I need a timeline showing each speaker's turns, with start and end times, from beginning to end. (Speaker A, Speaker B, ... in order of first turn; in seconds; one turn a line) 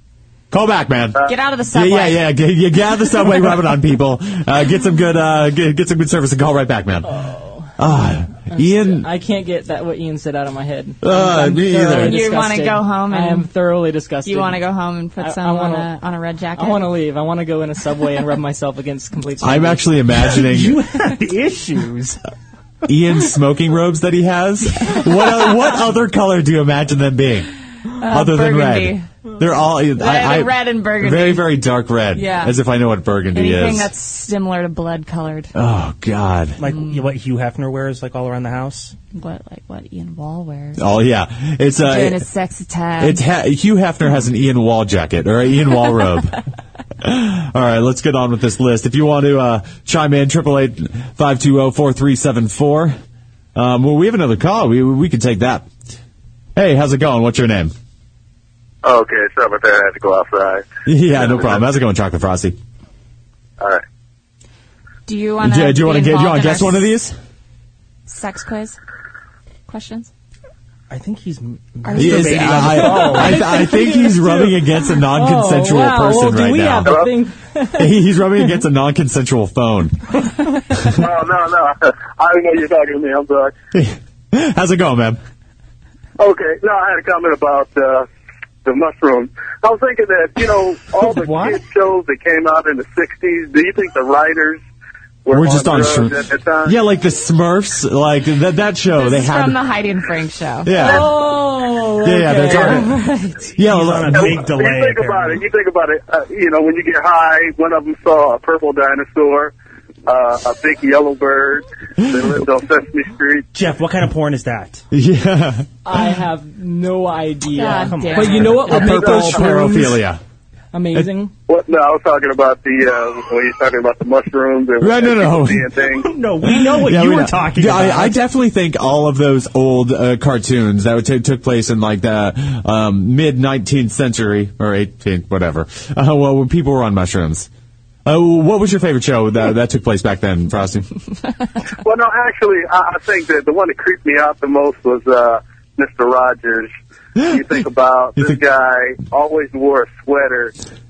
Speaker A: 0.5-7.2
Speaker B: 1.2-2.3
Speaker C: 7.0-7.7
Speaker A: 7.8-9.1
Speaker C: 8.5-14.6
Speaker A: 11.0-12.3
Speaker B: 12.0-13.5
Speaker B: 14.2-16.9
Speaker C: 15.2-15.9
Speaker C: 16.6-19.9
Speaker A: 19.4-20.8
Speaker D: 20.3-22.2
Speaker A: 22.9-27.5
Speaker B: 28.0-29.1
Speaker A: 28.0-33.9
Speaker B: 29.9-31.5
Speaker B: 32.1-32.5
Speaker B: 33.3-35.5
Speaker A: 35.5-36.6
Speaker D: 36.6-38.9
Speaker B: 39.1-40.8
Speaker A: 40.8-42.2
Speaker B: 41.8-43.2
Speaker A: 43.0-46.4
Speaker A: 47.0-53.0
Speaker A: 53.5-55.7
Speaker A: 56.5-57.7
Speaker E: 58.8-61.6
Speaker A: 60.8-62.5
Speaker B: 65.0-66.9
Speaker A: 65.4-67.2
Speaker B: 68.1-68.8
Speaker B: 69.7-70.1
Speaker D: 70.9-73.5
Speaker B: 71.9-72.5
Speaker A: 72.0-77.0
Speaker C: 72.6-78.2
Speaker A: 77.7-80.1
Speaker E: 80.9-83.5
Speaker A: 83.7-85.2
Speaker E: 86.2-88.1
Speaker E: 88.6-94.6
Speaker D: 91.0-91.6
Speaker E: 95.2-96.8
Speaker A: 95.3-99.6
Speaker B: 98.9-101.0
Speaker A: 100.6-101.1
Speaker C: 100.8-103.3
Speaker A: 102.0-103.0
Speaker A: 103.6-104.5
Speaker D: 103.6-105.4
Speaker E: 104.2-109.5
Speaker E: 110.0-113.5
Speaker D: 113.5-114.8
Speaker A: 114.9-115.7
Speaker C: 115.8-119.9
Speaker B: 117.5-118.7
Speaker D: 117.7-118.8
Speaker A: 118.4-120.2
Speaker E: 118.8-119.4
Speaker C: 120.7-121.3
Speaker E: 121.5-126.1
Speaker A: 124.8-125.7
Speaker D: 126.0-128.2
Speaker A: 126.4-137.5
Speaker A: 138.1-140.9
Speaker E: 141.8-150.5